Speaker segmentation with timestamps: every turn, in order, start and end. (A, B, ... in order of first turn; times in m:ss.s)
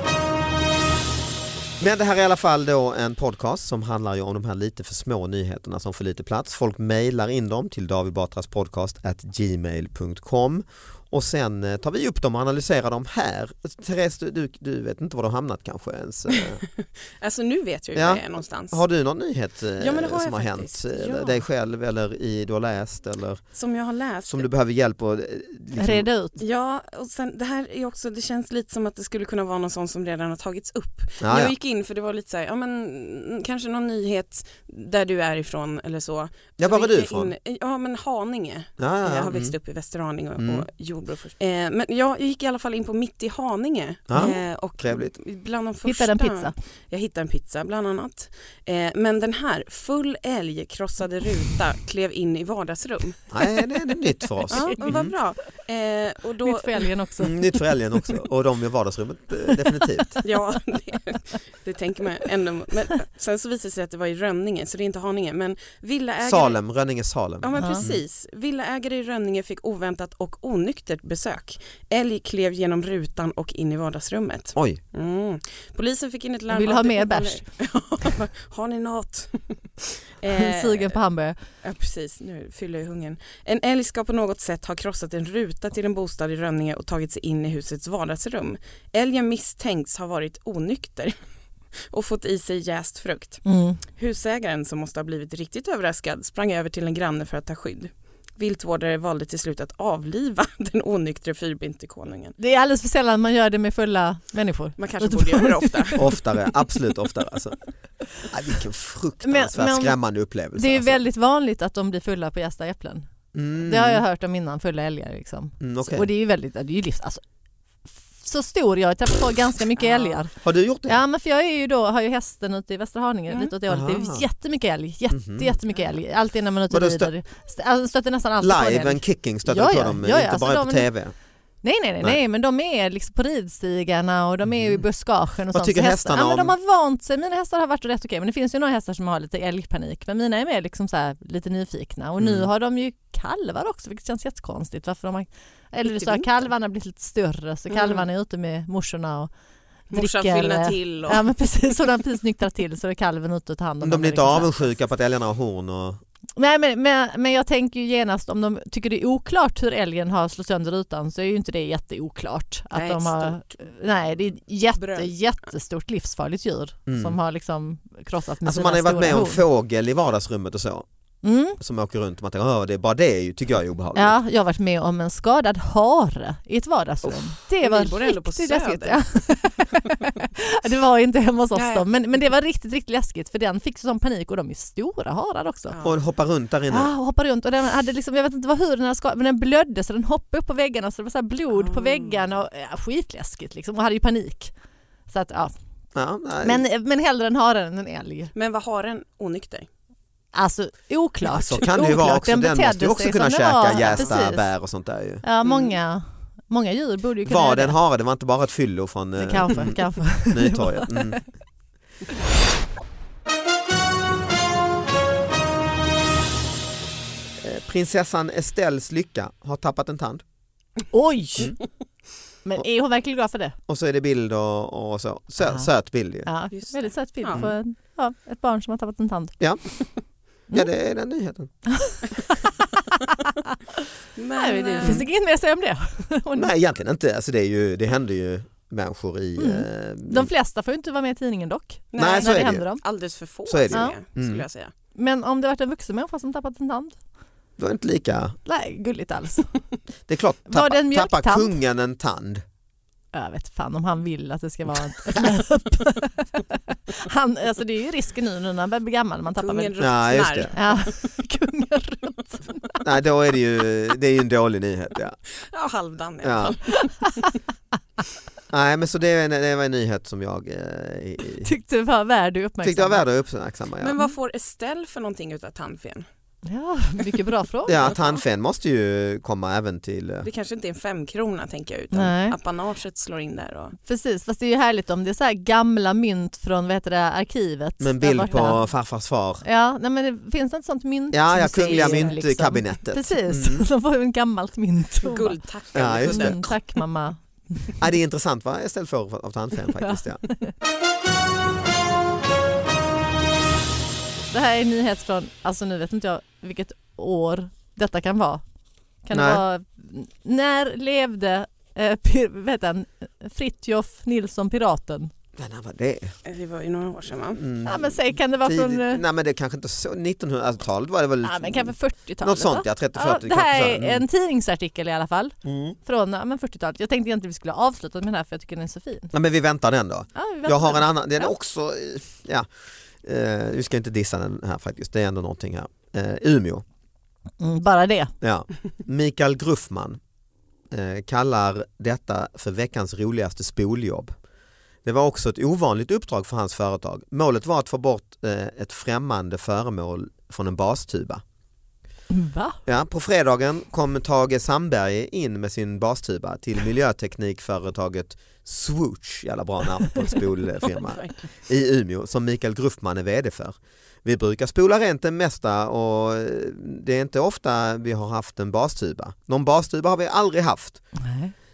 0:01.8-0:16.6 A
0:17.2-0:18.8 B
0:17.9-0:23.4 A
0:19.8-0:21.4 B
0:23.5-0:24.5 B
0:24.3-0:26.1 A
0:25.8-0:26.4 C
0:26.4-0:53.2 B
0:31.2-0:31.5 A
0:36.6-0:37.3 A
0:38.8-0:39.5 A
0:40.4-0:40.7 A
0:44.1-0:45.1 A
0:45.8-0:46.5 C
0:53.3-0:55.1 A
0:54.4-0:55.0 C
0:54.5-0:56.9 B
0:56.4-0:58.1 C
0:57.2-1:00.2 A
0:59.7-1:00.2 C
1:00.2-1:06.6 B
1:06.2-1:08.0 A
1:07.4-1:21.0 B
1:07.6-1:07.9 C
1:16.5-1:17.4 C
1:20.3-1:21.4 C
1:21.6-1:31.2 B
1:31.9-1:42.4 B
1:33.4-1:33.8 C
1:42.4-1:46.0 C
1:44.8-1:46.2 B
1:46.0-1:47.6 A
1:48.2-1:51.0 A
1:49.2-1:50.0 C
1:50.6-1:53.1 C
1:53.3-1:54.0 A
1:53.6-1:57.2 C
1:55.6-1:56.1 A
1:58.2-2:00.3 C
1:59.8-2:00.2 B
2:00.4-2:01.0 A
2:00.9-2:10.9 C
2:03.7-2:04.3 A
2:05.1-2:05.6 A
2:06.7-2:07.1 A
2:08.4-2:11.1 A
2:11.6-2:29.3 C
2:14.5-2:14.8 A
2:15.5-2:16.5 A
2:22.2-2:22.5 A
2:25.9-2:26.3 B
2:27.7-2:28.0 B
2:29.9-2:31.3 B
2:29.9-2:34.6 C
2:33.8-2:36.0 A
2:36.4-2:49.4 C
2:42.7-2:43.5 B
2:44.8-2:45.2 B
2:46.9-2:47.2 A
2:48.4-2:50.9 A
2:51.2-2:51.6 C
2:51.6-2:54.2 A
2:54.0-3:05.8 C
2:57.6-2:59.3 B
3:01.6-3:01.9 B
3:05.7-3:06.0 B
3:05.8-3:06.9 A
3:06.7-3:14.5 C
3:11.6-3:12.2 B
3:15.1-3:15.5 C
3:16.0-3:16.6 A
3:16.4-3:18.3 C
3:18.4-3:19.7 B
3:20.3-3:24.5 C
3:21.2-3:25.2 A
3:23.8-3:24.1 B
3:25.2-3:27.8 C
3:25.4-3:25.8 B
3:27.2-3:31.2 A
3:29.2-3:31.2 C
3:37.4-3:40.2 A
3:40.9-3:41.6 C
3:42.4-3:43.6 C
3:43.7-3:46.3 A
3:46.2-3:49.4 C
3:46.5-3:47.4 B
3:50.5-3:51.5 A
3:51.7-3:53.8 C
3:54.2-3:55.0 B
3:54.4-3:56.5 C
3:56.3-4:00.3 A
3:59.4-4:02.8 C
4:01.9-4:04.7 B
4:02.0-4:02.7 A
4:03.5-4:04.4 A
4:05.0-4:07.0 C
4:07.6-4:08.4 A
4:08.4-4:09.5 C
4:10.1-4:12.4 A
4:10.5-4:11.5 C
4:13.1-4:19.7 C
4:19.4-4:20.9 B
4:19.8-4:20.5 A
4:20.5-4:22.8 C
4:22.8-4:25.2 A
4:25.5-4:26.9 B
4:26.2-4:26.6 A
4:28.5-4:31.5 A
4:31.4-4:33.0 C
4:32.6-4:34.0 A
4:33.8-4:36.1 B
4:36.5-4:37.9 C
4:37.7-4:40.3 A
4:40.2-4:43.8 B
4:41.9-4:42.4 C
4:43.9-4:48.6 C
4:47.8-4:49.4 A
4:49.4-4:55.4 C
4:51.1-4:53.7 A
4:51.7-4:52.1 B
4:55.0-4:56.5 B
4:55.7-4:56.5 A
4:56.0-4:57.7 C
4:57.8-5:00.2 A
4:59.8-5:00.5 C
5:04.3-5:08.4 C
5:09.0-5:15.1 C
5:09.1-5:09.4 A
5:15.4-5:16.2 A
5:16.2-5:17.4 B
5:17.4-5:24.0 A
5:17.6-5:19.0 C
5:21.2-5:29.1 C
5:25.4-5:25.8 A
5:29.1-5:32.5 A
5:30.2-5:31.3 C
5:33.0-5:36.6 A
5:37.4-5:38.1 C
5:38.2-5:40.0 A
5:40.7-5:44.1 A
5:44.8-5:51.2 A
5:52.1-5:52.6 C
5:52.7-6:10.8 A
6:00.8-6:01.1 B
6:11.0-6:11.3 C